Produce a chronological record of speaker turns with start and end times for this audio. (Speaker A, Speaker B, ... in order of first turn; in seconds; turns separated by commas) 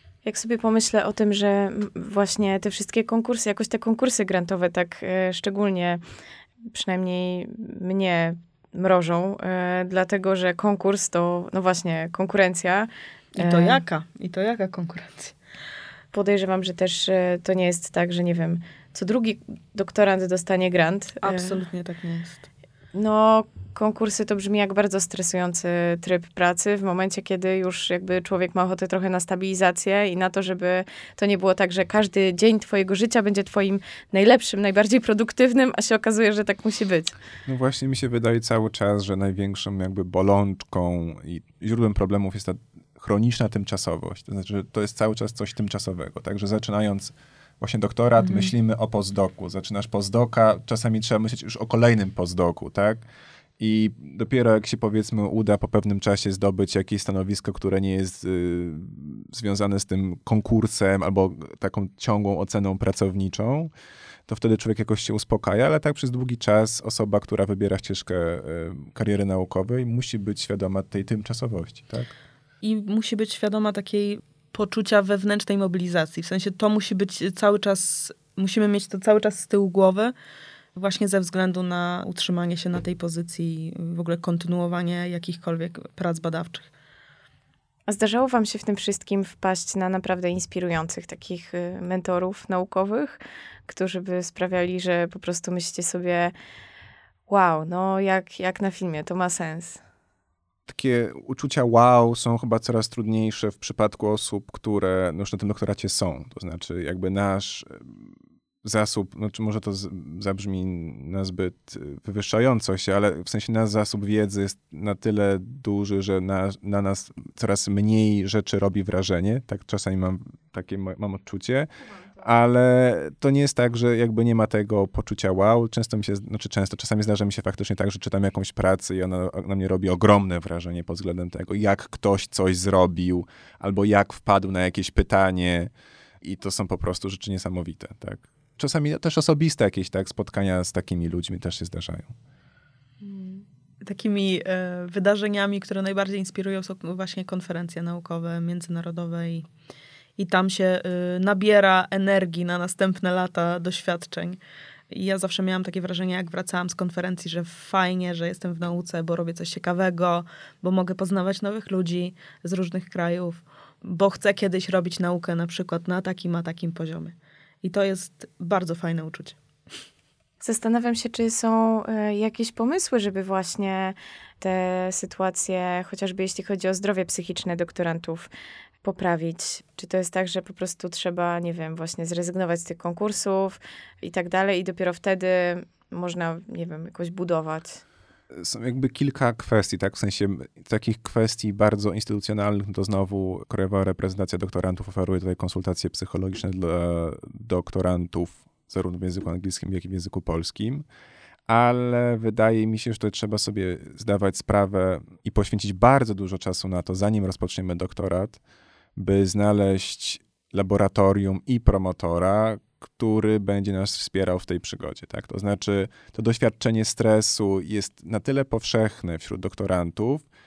Speaker A: 0.2-6.0, Speaker A: 6.6-13.8, Speaker B: 13.4-15.3, Speaker A: 16.1-21.6, Speaker B: 21.2-22.4, Speaker A: 22.9-37.1, Speaker C: 37.5-53.0, Speaker C: 53.6-63.7, Speaker C: 64.3-72.1, Speaker B: 72.6-80.1, Speaker B: 80.8-86.7, Speaker A: 87.9-96.3, Speaker A: 97.3-99.8, Speaker C: 100.7-107.9, Speaker C: 108.6-142.2, Speaker B: 143.0-149.4, Speaker B: 150.2-154.4, Speaker B: 154.9-169.4, Speaker A: 170.4-178.3, Speaker A: 178.8-187.8, Speaker C: 188.3-200.8, Speaker C: 201.5-208.4, Speaker C: 209.0-220.2